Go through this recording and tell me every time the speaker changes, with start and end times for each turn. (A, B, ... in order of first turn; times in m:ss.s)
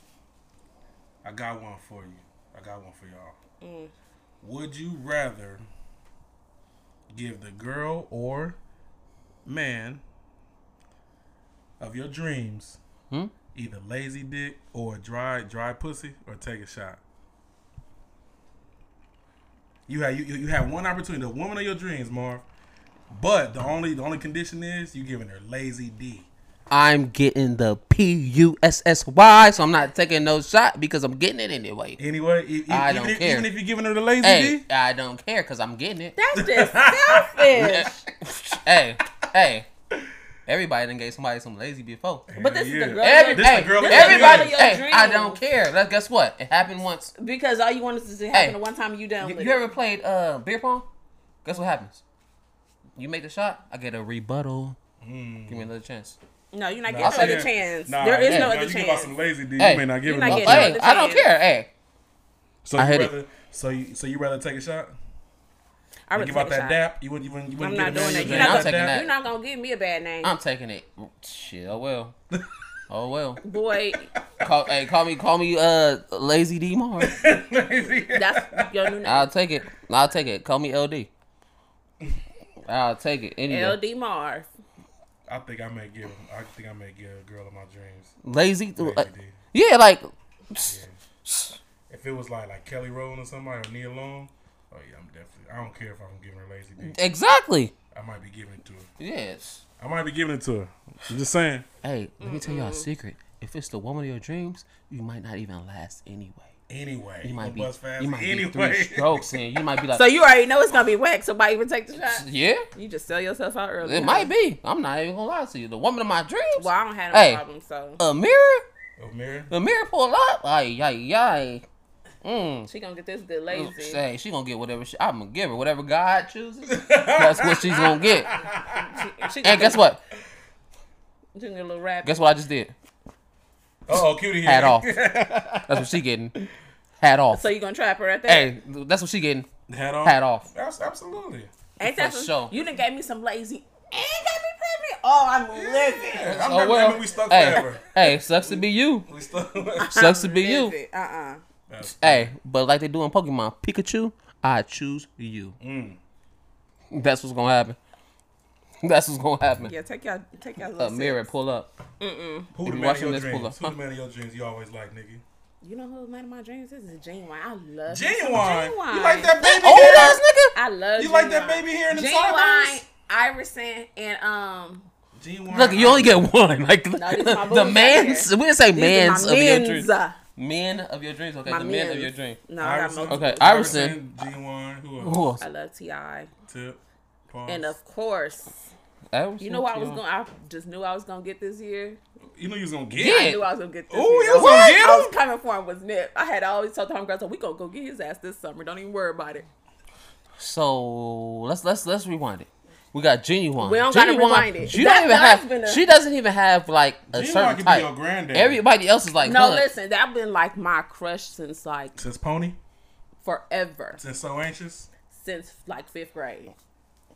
0:01.2-0:03.4 A
0:03.6-0:03.9 B
0:04.4-0:05.6 A
0:07.1-0:08.6 A
0:09.4-0:10.0 A
0:11.8-0:12.8 A
0:13.5-0:17.0 A
0:19.9-0:22.4 A
0:23.1-0:26.3 A
0:26.7-0:32.0 C
0:32.0-0:34.6 A
0:32.7-0:33.5 C
0:34.2-0:36.2 C
0:36.2-0:38.0 B
0:36.4-0:37.5 A
0:37.5-0:39.7 C
0:40.5-0:42.3 C
0:42.3-0:44.6 A
0:42.4-0:45.4 B
0:43.0-0:47.1 C
0:47.2-0:49.6 B
0:48.3-0:48.6 C
0:49.2-0:50.9 C
0:51.4-0:52.0 C
0:53.0-0:54.8 C
0:55.0-0:55.7 A
0:55.5-0:56.2 C
0:56.5-0:59.1 B
0:56.9-1:00.8 A
0:57.0-0:57.5 C
0:58.3-0:58.5 C
0:59.6-1:01.7 C
1:00.0-1:01.3 B
1:02.6-1:04.9 A
1:02.8-1:03.1 C
1:06.1-1:06.8 B
1:06.2-1:09.0 A
1:07.6-1:10.3 B
1:07.9-1:09.1 C
1:10.2-1:12.2 C
1:12.9-1:13.4 C
1:13.4-1:14.1 B
1:14.4-1:17.2 C
1:17.0-1:18.7 A
1:18.1-1:19.3 B
1:19.0-1:21.1 C
1:22.7-1:23.8 C
1:23.5-1:24.5 B
1:25.3-1:28.1 A
1:28.2-1:31.6 C
1:28.8-1:29.4 A
1:30.7-1:31.0 A
1:31.9-1:37.0 A
1:36.8-1:37.7 C
1:37.9-1:38.9 A
1:39.0-1:39.6 C
1:39.8-1:41.7 A
1:41.8-1:46.5 C
1:42.2-1:42.9 B
1:46.7-1:49.4 A
1:47.2-1:50.0 C
1:49.9-1:54.3 B
1:52.0-1:52.7 C
1:53.8-1:57.4 C
1:56.6-1:58.0 B
1:58.0-1:58.6 C
1:59.0-1:59.5 A
1:59.5-2:01.7 C
2:02.2-2:02.7 C
2:02.7-2:04.0 B
2:03.5-2:08.3 C
2:06.7-2:09.3 A
2:08.7-2:09.8 B
2:09.4-2:10.0 C
2:11.4-2:12.2 B
2:12.0-2:12.7 C
2:13.9-2:16.5 A
2:14.4-2:14.9 C
2:15.7-2:16.4 C
2:17.0-2:17.4 C
2:17.3-2:18.5 B
2:18.3-2:19.5 C
2:19.7-2:21.5 A
2:20.0-2:20.5 C
2:21.8-2:26.4 B
2:21.8-2:22.5 C
2:25.5-2:27.9 A
2:26.3-2:29.1 C
2:28.4-2:30.0 A
2:29.8-2:31.4 B
2:29.9-2:30.7 C
2:31.7-2:32.3 A
2:31.9-2:35.6 C
2:35.6-2:36.0 A
2:36.9-2:37.8 C
2:38.8-2:39.7 C
2:39.6-2:41.3 B
2:40.8-2:41.7 C
2:42.0-2:42.5 B
2:42.6-2:45.2 A
2:42.6-2:43.7 C
2:45.6-2:54.9 B
2:47.9-2:50.2 A
2:49.4-2:50.5 C
2:51.0-2:52.8 A
2:55.2-2:56.3 A
2:55.5-3:02.4 C
2:57.0-3:00.2 B
3:01.5-3:03.8 B
3:02.6-3:05.3 A
3:03.1-3:04.0 C
3:05.0-3:05.4 C
3:05.4-3:06.3 B
3:06.5-3:07.8 A
3:07.5-3:08.6 B
3:09.1-3:10.0 C
3:09.4-3:12.0 B
3:12.4-3:13.4 A
3:13.0-3:13.4 C
3:13.0-3:19.5 B
3:13.9-3:15.1 A
3:14.4-3:14.7 C
3:20.4-3:29.7 C
3:23.6-3:25.9 B
3:27.1-3:28.6 A
3:29.2-3:32.0 B
3:32.0-3:32.6 A
3:33.2-3:34.0 B
3:34.0-3:34.9 A
3:35.1-3:36.5 B